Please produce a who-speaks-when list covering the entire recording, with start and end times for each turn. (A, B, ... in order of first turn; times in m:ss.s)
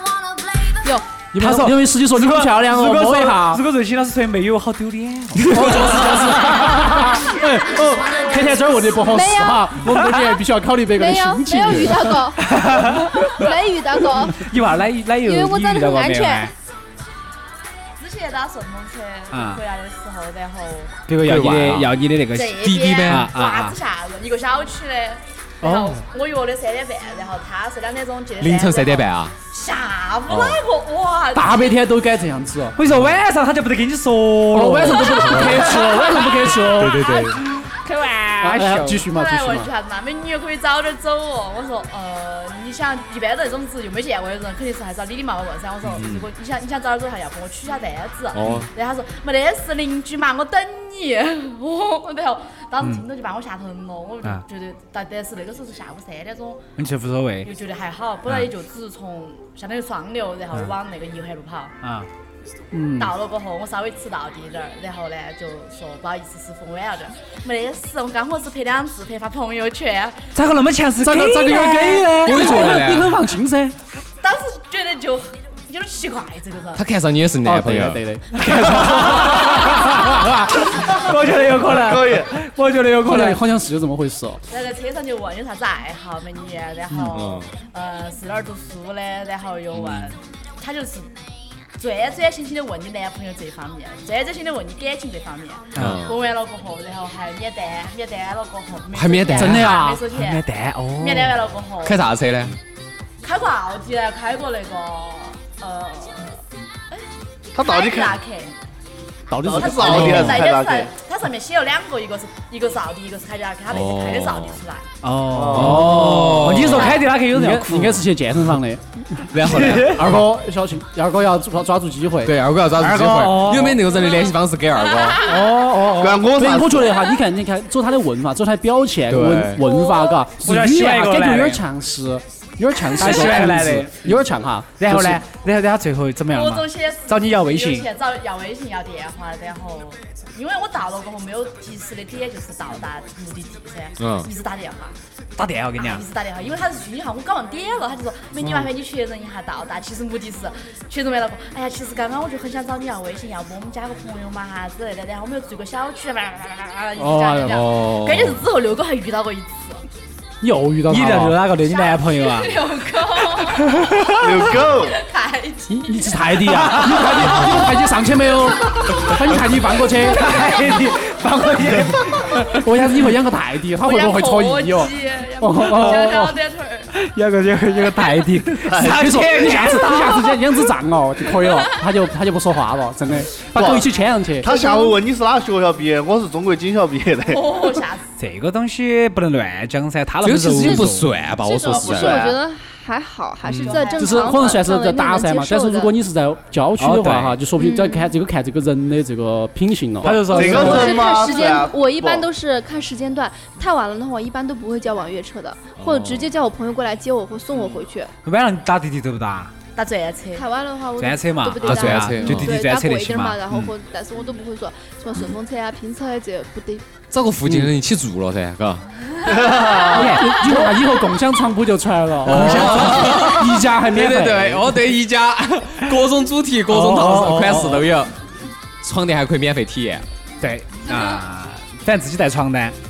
0:00.3-0:01.1 A
0:01.3-0:03.6 B
0:01.4-0:07.0 C
0:05.5-0:12.2 B
0:05.6-0:05.9 D
0:09.0-0:09.9 A
0:10.0-0:10.3 C
0:11.0-0:12.5 A
0:12.4-0:13.4 C
0:13.1-0:14.4 A
0:14.2-0:16.5 C
0:15.2-0:16.5 A
0:18.0-0:20.9 E
0:19.3-0:19.6 C
0:21.1-0:23.8 C
0:21.2-0:21.9 D
0:22.3-0:31.7 E
0:22.6-0:23.3 D
0:25.6-0:26.0 C
0:28.4-0:29.3 D
0:30.3-0:30.6 D
0:31.4-0:32.8 B
0:32.8-0:36.2 C
0:32.9-0:33.2 D
0:34.5-0:37.3 B
0:35.3-0:35.6 D
0:36.6-0:37.4 D
0:37.5-0:39.1 C
0:38.4-0:39.7 B
0:39.1-0:56.6 E
0:45.9-0:46.3 D
0:48.3-0:48.7 D
0:56.8-0:57.5 C
0:57.4-1:01.8 E
1:02.7-1:03.1 B
1:03.0-1:10.2 E
1:10.4-1:12.9 C
1:11.0-1:13.8 B
1:12.2-1:13.2 D
1:14.2-1:16.8 E
1:16.8-1:18.0 D
1:17.4-1:20.5 B
1:18.3-1:23.4 C
1:21.7-1:22.3 F
1:22.9-1:24.4 B
1:24.5-1:31.2 E
1:27.1-1:27.5 D
1:29.7-1:30.1 D
1:31.8-1:40.4 E
1:35.8-1:36.0 C
1:35.8-1:36.2 D
1:38.9-1:39.8 D
1:39.4-1:40.0 B
1:40.1-1:41.4 C
1:41.0-1:42.0 E
1:41.8-1:42.6 D
1:43.2-1:47.0 E
1:47.6-1:48.2 F
1:47.6-1:48.6 E
1:49.3-1:50.5 B
1:49.4-1:50.9 F
1:49.6-1:54.9 E
1:53.7-1:54.6 D
1:55.0-1:58.0 C
1:55.3-1:55.9 F
1:55.5-1:57.0 D
1:55.6-2:02.3 B
1:56.7-1:57.1 E
1:59.3-2:00.3 D
1:59.5-2:00.0 C
2:02.2-2:05.2 D
2:02.8-2:03.9 C
2:05.2-2:06.3 C
2:06.0-2:07.0 F
2:06.4-2:15.2 B
2:09.1-2:09.6 D
2:09.8-2:10.1 A
2:10.4-2:11.6 C
2:13.0-2:14.1 C
2:14.8-2:17.9 C
2:16.3-2:25.0 E
2:24.0-2:24.3 D
2:25.4-2:26.0 C
2:25.8-2:39.8 E
2:37.0-2:37.8 B
2:37.5-2:38.4 D
2:40.4-2:41.4 B
2:40.9-2:42.5 C
2:41.6-2:46.9 E
2:43.6-2:44.5 C
2:44.2-2:45.0 F
2:45.7-2:50.4 B
2:46.5-2:47.5 C
2:48.7-2:49.6 E
2:50.0-2:52.5 C
2:50.3-2:50.8 E
2:52.6-2:56.4 B
2:53.8-2:56.9 E
2:56.9-3:00.5 C
2:58.7-2:59.2 F
2:58.8-3:04.5 B
3:03.6-3:03.9 F
3:04.4-3:07.8 F
3:04.5-3:04.9 A
3:07.3-3:08.0 E
3:08.2-3:11.1 C
3:10.2-3:12.4 D
3:10.6-3:15.9 A
3:11.7-3:12.3 F
3:13.5-3:13.8 D
3:13.6-3:14.6 E
3:14.0-3:20.6 B
3:16.8-3:17.4 C
3:17.6-3:18.1 A
3:20.0-3:21.0 C
3:20.2-3:22.3 F
3:20.4-3:28.1 A
3:25.8-3:26.3 D
3:28.2-3:29.5 C
3:29.8-3:30.5 E
3:30.3-3:36.8 A
3:31.0-3:33.4 C
3:31.6-3:32.5 D
3:37.1-3:39.5 D
3:39.3-3:39.7 E
3:39.8-3:40.8 C
3:39.9-3:44.8 B
3:42.2-3:48.1 D
3:42.2-3:43.3 C
3:46.7-3:47.9 C
3:48.8-3:50.0 D
3:50.4-3:52.8 C